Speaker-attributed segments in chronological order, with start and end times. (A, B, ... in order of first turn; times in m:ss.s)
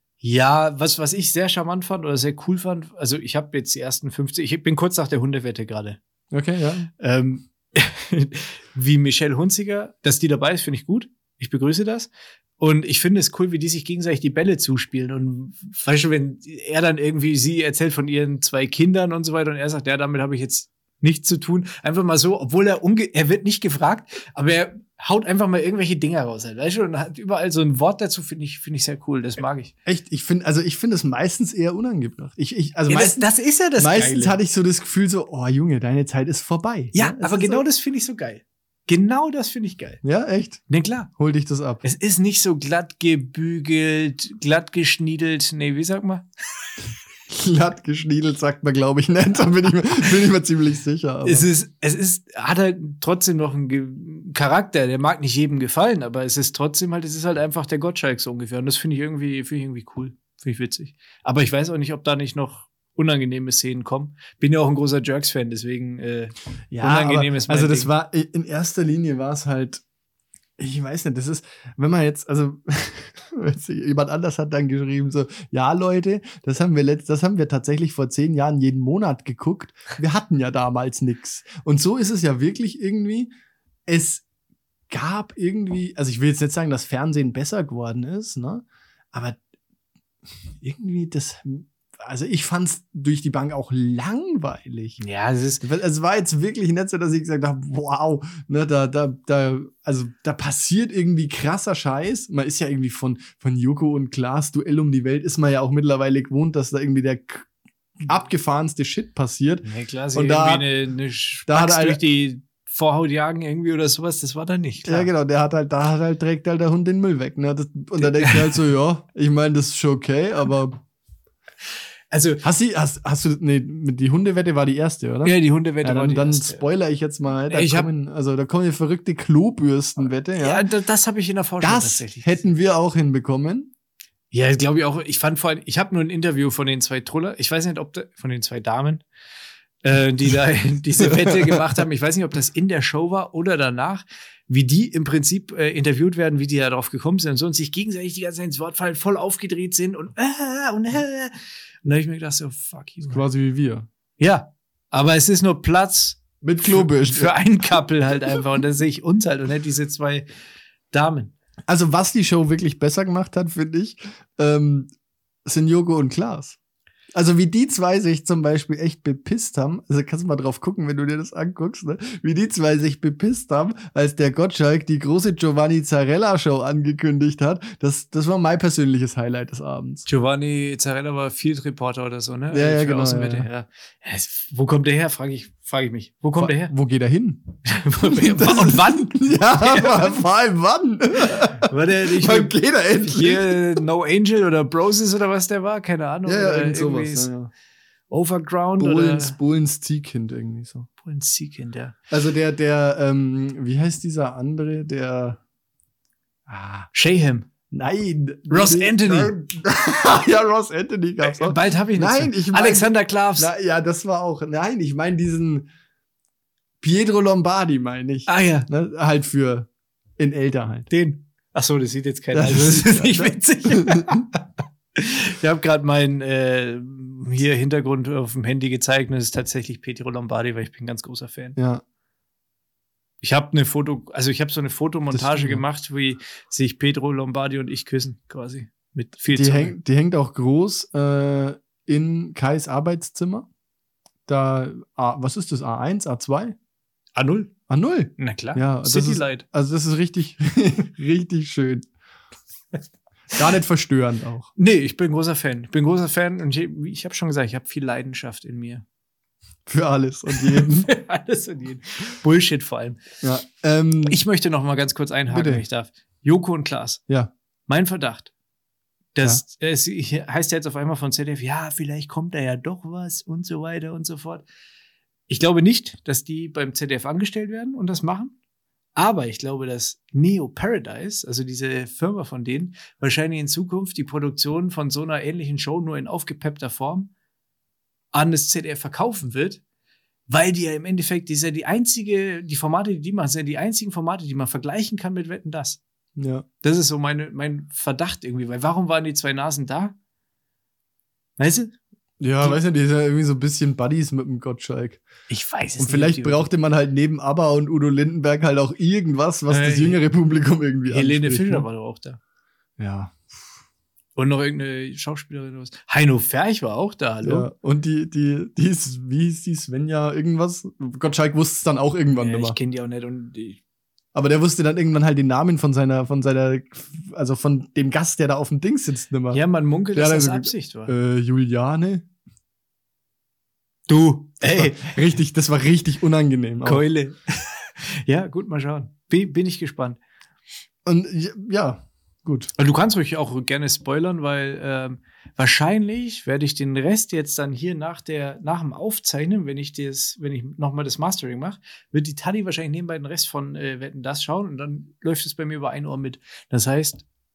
0:00.2-0:06.0 A
0:06.3-0:06.9 B
0:07.0-0:29.7 A
0:29.9-0:33.3 B
0:32.9-0:34.4 A
0:33.8-0:37.6 B
0:36.9-0:40.0 A
0:40.0-0:41.8 B
0:40.7-0:41.1 A
0:41.8-0:46.3 A
0:47.3-0:51.5 B
0:51.2-1:07.9 A
1:06.7-1:09.8 B
1:10.6-1:23.3 B
1:23.9-1:24.2 B
1:24.9-1:29.4 B
1:30.6-1:35.0 B
1:35.0-1:35.6 A
1:35.6-1:47.5 B
1:48.0-1:50.7 B
1:49.6-1:55.1 A
1:51.5-1:52.0 B
1:54.9-2:00.8 B
1:58.0-1:58.6 A
2:02.1-2:02.4 A
2:02.4-2:10.6 B
2:05.2-2:06.6 A
2:07.5-2:07.9 A
2:10.4-2:12.5 A
2:11.6-2:13.7 B
2:14.3-2:19.0 A
2:19.8-2:33.3 A
2:21.1-2:21.6 B
2:33.1-2:33.9 B
2:34.2-2:40.3 A
2:36.4-2:37.4 B
2:40.9-2:41.4 A
2:41.7-2:44.9 B
2:45.4-2:46.6 B
2:47.1-3:00.1 B
3:00.1-3:06.7 A
3:02.5-3:03.5 B
3:06.4-3:13.8 B
3:07.7-3:10.2 A
3:11.3-3:17.3 A
3:16.3-3:17.5 B
3:18.1-3:19.4 A
3:18.8-3:20.9 B
3:21.0-3:22.0 A
3:22.1-3:25.4 B
3:26.5-3:26.9 B
3:26.9-3:27.5 A
3:27.7-3:35.7 B
3:28.5-3:29.3 A
3:31.2-3:33.5 A
3:36.8-3:40.9 B
3:38.3-3:38.7 A
3:40.9-3:44.3 A
3:42.3-3:44.2 B
3:45.0-3:51.6 A
3:51.6-3:51.8 B
3:53.2-3:59.8 A
3:55.1-3:55.6 B
3:59.3-4:03.5 B
4:04.3-4:06.6 B
4:07.2-4:07.5 A
4:07.7-4:11.9 B
4:08.2-4:09.4 A
4:13.3-4:14.5 B
4:14.6-4:18.8 A
4:19.7-4:20.9 B
4:20.3-4:23.0 A
4:23.2-4:24.2 B
4:24.1-4:27.0 A
4:25.3-4:25.6 B
4:27.7-4:28.3 A
4:29.2-4:34.4 A
4:35.3-4:38.3 A
4:39.0-4:47.1 A
4:48.1-4:49.6 A
4:50.3-4:55.8 A
4:56.2-4:56.4 B
4:56.6-5:00.0 A
5:01.4-5:01.8 A
5:02.2-5:05.0 B
5:05.3-5:06.5 A
5:05.8-5:11.7 B
5:09.5-5:10.0 A
5:10.9-5:12.2 A
5:12.8-5:13.2 B
5:14.2-5:17.5 A
5:17.2-5:22.6 B
5:22.1-5:23.6 A
5:24.1-5:29.4 B
5:29.3-5:30.9 A
5:29.9-5:32.1 B
5:33.9-5:35.1 A
5:34.5-5:36.8 B
5:36.6-5:40.0 A
5:40.8-5:42.5 B
5:42.6-5:57.0 A